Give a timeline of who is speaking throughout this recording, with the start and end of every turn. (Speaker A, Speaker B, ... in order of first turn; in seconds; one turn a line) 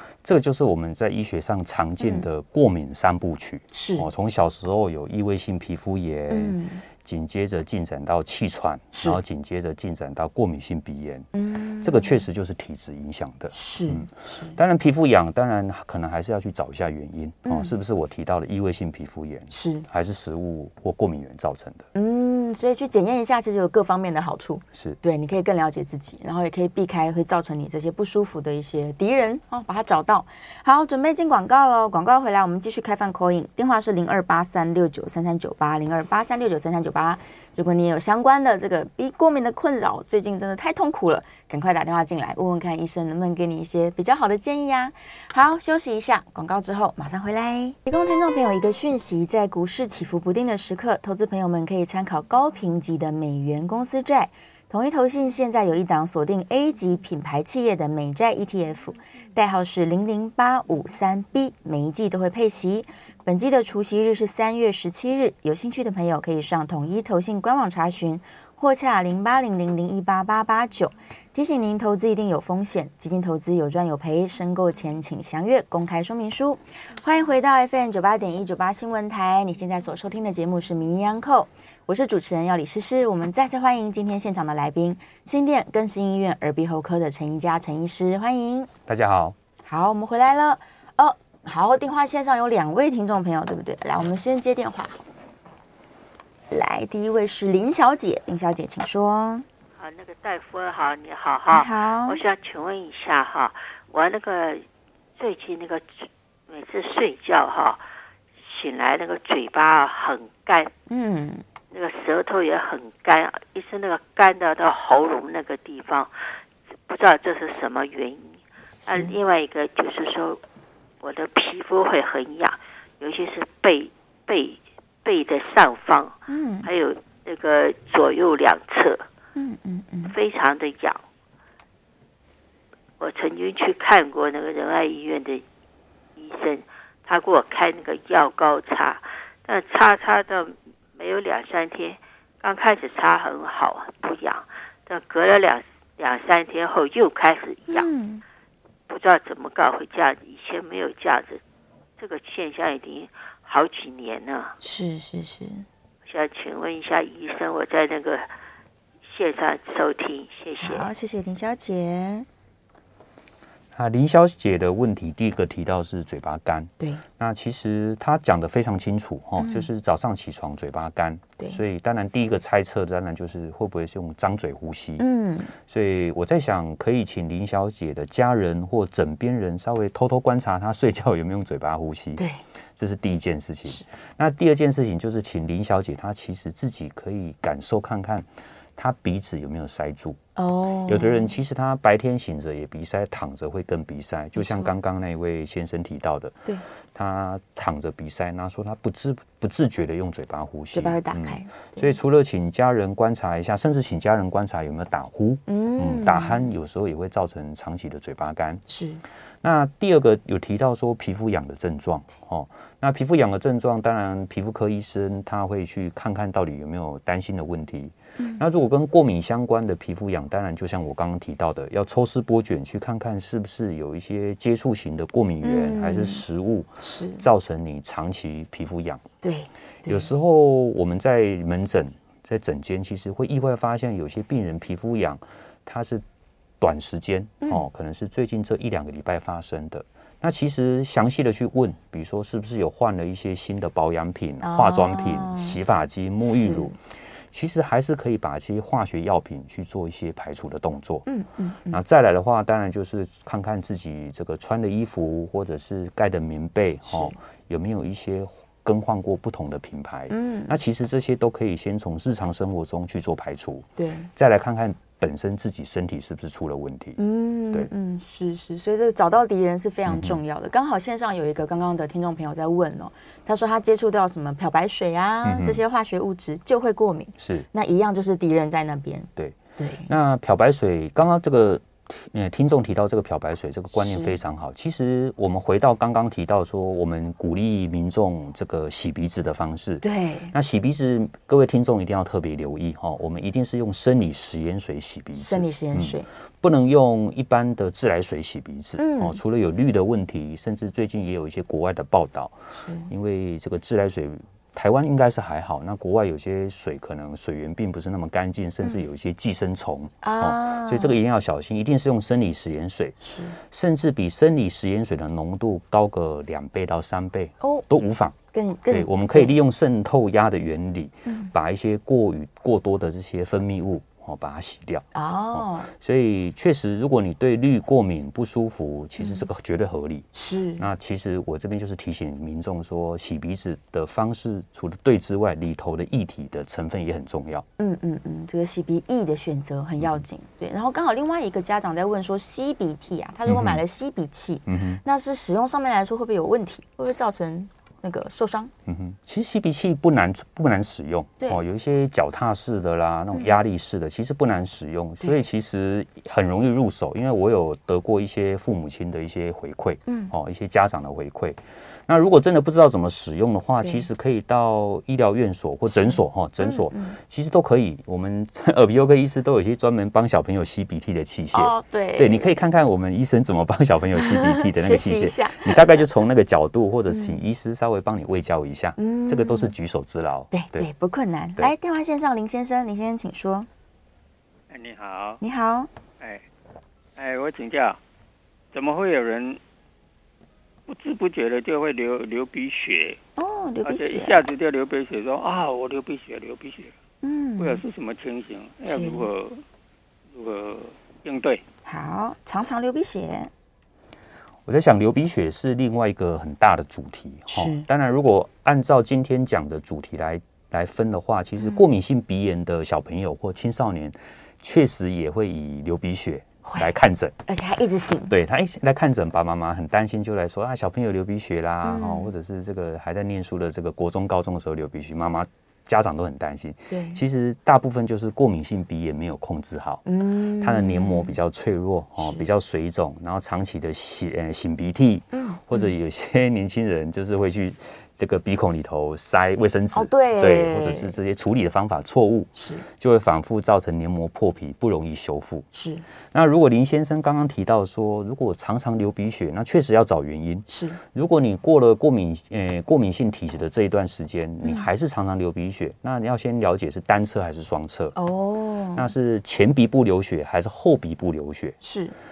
Speaker A: 0.2-11.3
Speaker B: 3.7-4.1
Speaker B: 6.3-6.8
Speaker B: 8.9-9.2
Speaker B: 11.3-12.2
Speaker A: 11.8-21.9
Speaker B: 13.5-14.6
Speaker B: 17.4-17.7
Speaker B: 19.5-19.9
Speaker B: 21.9-88.7
Speaker A: 24.7-25.0
Speaker A: 88.9-89.4
Speaker B: 89.7-95.0
Speaker B: 96.5-99.5
Speaker C: 99.8-104.7
Speaker B: 101.5-102.2
Speaker C: 105.2-107.8
Speaker C: 108.5-110.7
Speaker B: 110.9-111.4
Speaker C: 111.7-116.1
Speaker C: 116.9-120.4
Speaker B: 118.8-119.2
Speaker C: 121.0-129.1
Speaker B: 126.3-126.7
Speaker B: 129.4-130.1
Speaker C: 130.0-131.0
Speaker C: 133.0-135.4
Speaker C: 136.2-147.9
Speaker B: 147.7-148.2
Speaker C: 148.9-151.4
Speaker C: 152.0-154.6
Speaker B: 154.6-155.7
Speaker C: 156.1-158.3
Speaker C: 159.1-160.9
Speaker B: 160.6-162.3
Speaker A: 163.7-175.0
Speaker B: 169.4-169.7
Speaker B: 175.0-175.5
Speaker A: 175.6-182.2
Speaker B: 182.2-182.4
Speaker A: 182.8-190.2
Speaker B: 190.4-191.3
Speaker A: 190.9-196.4
Speaker B: 194.4-194.7
Speaker A: 196.9-208.6
Speaker B: 200.7-201.9
Speaker B: 205.5-206.5
Speaker B: 208.7-209.0
Speaker A: 209.4-229.1
Speaker B: 225.4-226.2
Speaker B: 226.8-227.2
Speaker B: 229.2-230.1
Speaker A: 229.9-236.0
Speaker A: 236.6-246.8
Speaker B: 244.4-245.6
Speaker B: 246.2-246.7
Speaker A: 247.3-251.1
Speaker B: 251.1-251.8
Speaker A: 251.7-267.0
Speaker B: 256.9-257.1
Speaker B: 260.1-260.5
Speaker B: 263.8-264.1
Speaker B: 267.0-279.9
Speaker A: 269.9-270.2
Speaker A: 275.2-275.6
Speaker A: 277.2-277.5
Speaker A: 279.2-302.4
Speaker B: 283.7-284.2
Speaker B: 289.8-290.3
Speaker B: 295.2-296.1
Speaker B: 298.8-299.2
Speaker B: 302.5-302.9
Speaker A: 302.9-318.2
Speaker B: 310.0-311.0
Speaker B: 313.0-313.4
Speaker B: 317.4-317.7
Speaker B: 318.3-319.4
Speaker A: 318.7-330.1
Speaker B: 321.1-321.3
Speaker B: 324.9-325.7
Speaker B: 329.0-329.2
Speaker B: 330.1-330.6
Speaker A: 330.6-337.4
Speaker B: 337.6-348.5
Speaker A: 343.3-343.6
Speaker A: 344.5-344.8
Speaker A: 348.7-380.7
Speaker B: 359.9-360.1
Speaker B: 363.6-363.9
Speaker B: 365.7-367.0
Speaker B: 371.3-372.4
Speaker B: 374.0-375.9
Speaker B: 376.9-377.2
Speaker B: 378.8-379.5
Speaker B: 380.3-383.5
Speaker D: 384.5-385.2
Speaker B: 385.2-385.7
Speaker D: 386.0-386.3
Speaker D: 387.0-387.8
Speaker D: 388.5-389.4
Speaker D: 390.7-393.0
Speaker B: 393.2-394.3
Speaker D: 393.6-396.7
Speaker B: 397.0-397.6
Speaker D: 397.4-399.4
Speaker B: 398.6-399.1
Speaker D: 400.1-401.4
Speaker B: 401.7-403.3
Speaker A: 404.5-417.1
Speaker B: 407.3-407.7
Speaker B: 411.4-411.6
Speaker B: 416.4-416.7
Speaker B: 417.3-418.1
Speaker A: 418.1-429.8
Speaker B: 421.6-422.1
Speaker B: 426.7-427.0
Speaker B: 429.9-431.1
Speaker A: 430.4-445.4
Speaker B: 432.0-432.2
Speaker B: 435.1-435.7
Speaker B: 439.7-441.0
Speaker B: 442.4-442.6
Speaker B: 445.5-445.8
Speaker A: 446.1-457.9
Speaker B: 450.5-450.8
Speaker B: 454.4-454.7
Speaker B: 457.9-458.9
Speaker A: 458.7-461.6
Speaker B: 461.6-461.9